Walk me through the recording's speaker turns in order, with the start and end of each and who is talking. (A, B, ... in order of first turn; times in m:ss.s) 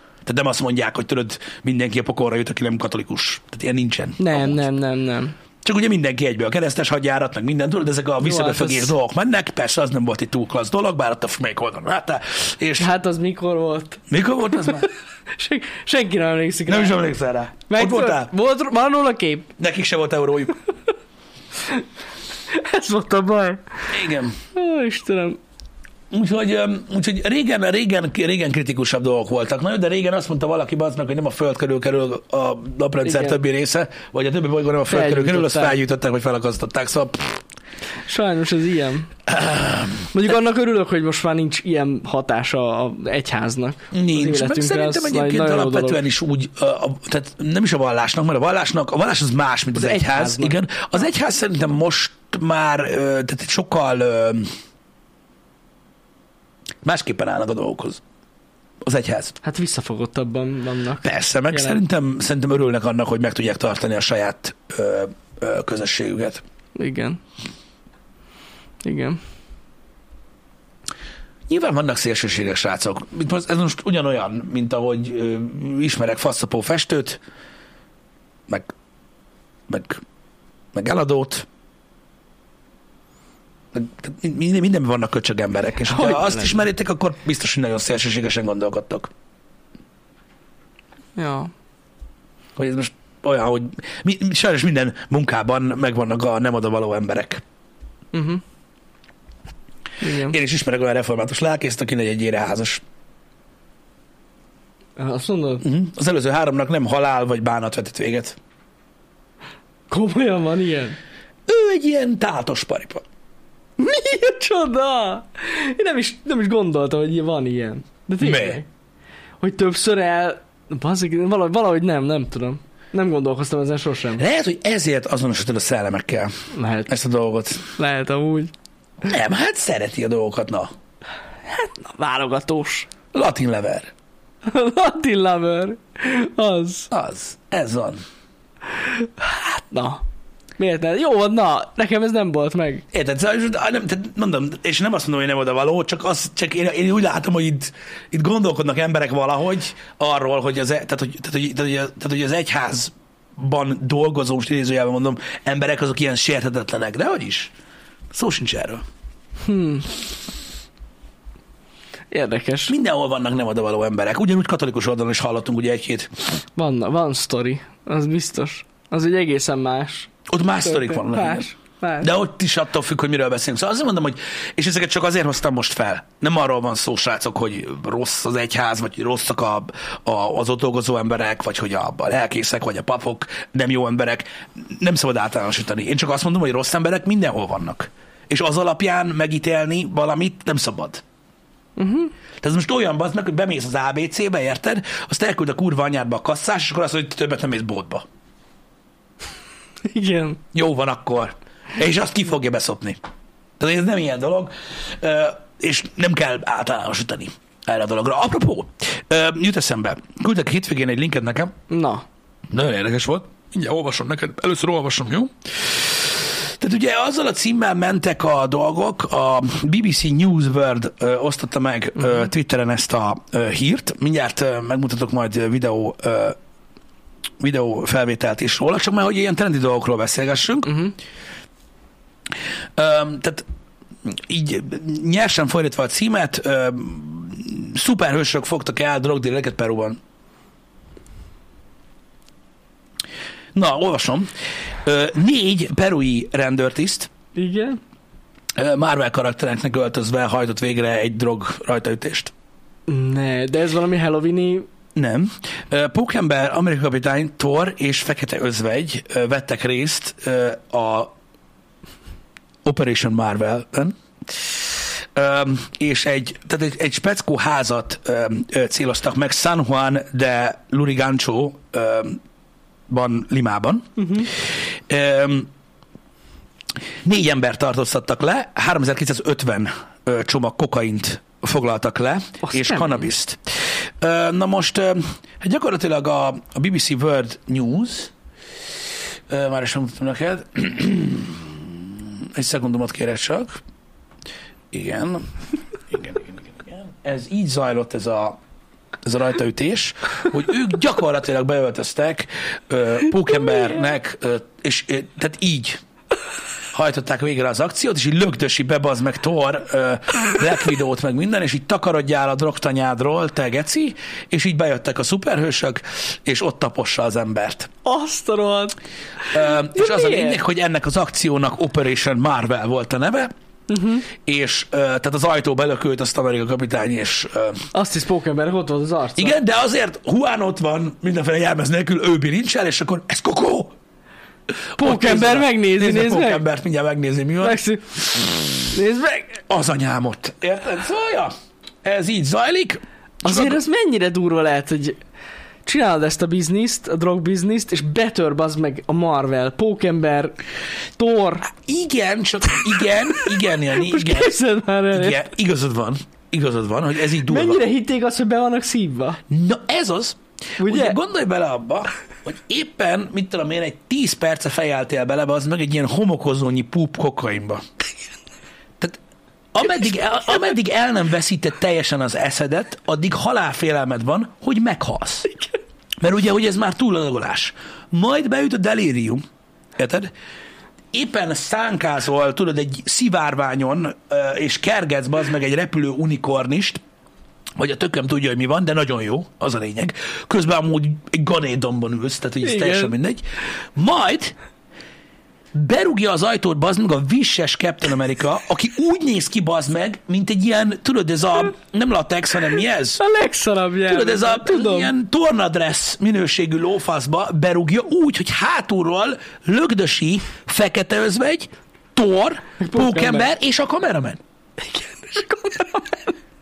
0:00.3-0:04.6 A
0:04.2-0:05.4 B
0:05.6-0:12.9 A
0:08.2-0:09.0 B
0:12.8-0:17.0 B
0:14.1-0:14.9 A
0:16.7-0:18.3 A
0:17.7-0:19.5 B
0:19.6-0:20.6 A
0:21.6-0:21.8 B
0:22.5-0:23.9 B
0:23.9-0:24.4 A
0:24.5-0:25.4 B
0:26.1-0:37.4 A
0:33.0-0:33.4 B
0:34.9-0:35.8 B
0:38.0-0:39.1 B
0:39.3-0:40.1 A
0:40.1-0:46.0 B
0:43.9-0:54.5 A
0:49.7-0:50.6 B
0:56.8-0:58.0 A
0:58.8-0:59.4 A
0:59.4-1:01.8 B
1:01.0-1:06.4 A
1:06.8-1:07.2 B
1:08.8-1:09.2 B
1:11.5-1:17.2 A
1:19.7-1:20.0 A
1:20.7-1:21.5 A
1:23.7-1:29.1 A
1:25.8-1:26.6 B
1:31.2-1:31.5 B
1:32.6-1:37.4 A
1:38.1-1:38.4 B
1:40.0-1:40.4 B
1:40.1-1:42.8 A
1:45.0-1:45.6 B
1:45.6-1:48.4 A
1:49.9-1:51.0 B
1:51.5-1:53.0 A
1:53.8-1:58.7 B
1:58.2-1:58.6 A
1:59.4-2:04.2 B
2:04.2-2:07.7 A
2:06.5-2:07.0 B
2:07.7-2:08.5 B
2:09.0-2:10.7 A
2:11.5-2:12.9 B
2:13.1-2:13.9 A
2:14.4-2:16.9 B
2:16.9-2:18.0 A
2:18.7-2:20.0 B
2:20.6-2:22.8 B
2:22.9-2:37.5 A
2:38.1-2:38.8 A
2:39.4-2:39.9 B
2:42.1-2:42.7 B
2:42.7-2:46.2 A
2:46.6-2:52.1 B
2:50.3-3:11.0 A
3:11.8-3:12.1 B
3:12.4-3:18.0 A
3:19.8-3:20.4 B
3:20.5-3:23.0 A
3:23.6-3:31.5 A
3:31.7-3:32.1 B
3:32.5-3:46.4 A
3:47.4-3:50.9 A
3:50.7-3:50.9 B
3:52.8-3:53.5 A
3:54.0-4:00.0 A
4:03.6-4:07.1 A
4:07.4-4:07.8 B
4:08.6-4:12.3 A
4:12.9-4:14.7 B
4:15.0-4:21.1 A
4:22.6-4:32.2 A
4:32.9-4:35.5 A
4:34.0-4:34.3 B
4:37.0-4:43.4 A
4:42.5-4:43.0 B
4:44.0-4:48.1 A
4:49.3-4:53.6 A
4:54.7-4:55.3 A
4:55.9-4:58.4 A
4:59.0-5:05.8 A
5:06.7-5:17.7 A
5:17.8-5:18.8 B
5:19.3-5:23.3 A
5:19.3-5:20.4 B
5:23.7-5:24.1 B
5:24.2-5:27.7 A
5:27.7-5:29.4 B
5:29.2-5:33.7 A
5:34.7-5:37.6 A
5:34.8-5:36.4 B
5:37.4-5:39.4 B
5:38.2-5:38.5 A
5:39.5-5:41.3 A
5:41.8-5:43.6 A
5:43.2-5:45.0 B
5:45.6-5:50.4 B
5:51.0-5:51.5 B
5:51.5-5:54.3 A
5:53.6-5:55.2 B
5:54.9-5:57.6 A
5:57.2-5:59.2 B
5:59.3-6:07.6 A
6:00.6-6:01.0 B
6:09.5-6:15.3 A
6:16.0-6:19.2 A
6:19.8-6:20.1 A
6:20.9-6:26.8 A
6:27.6-6:33.2 A
6:32.4-6:32.9 B
6:33.8-6:34.4 A
6:35.5-6:43.0 A
6:43.0-6:44.9 B
6:43.9-6:54.2 A
6:52.6-6:53.3 B
6:54.6-6:56.2 B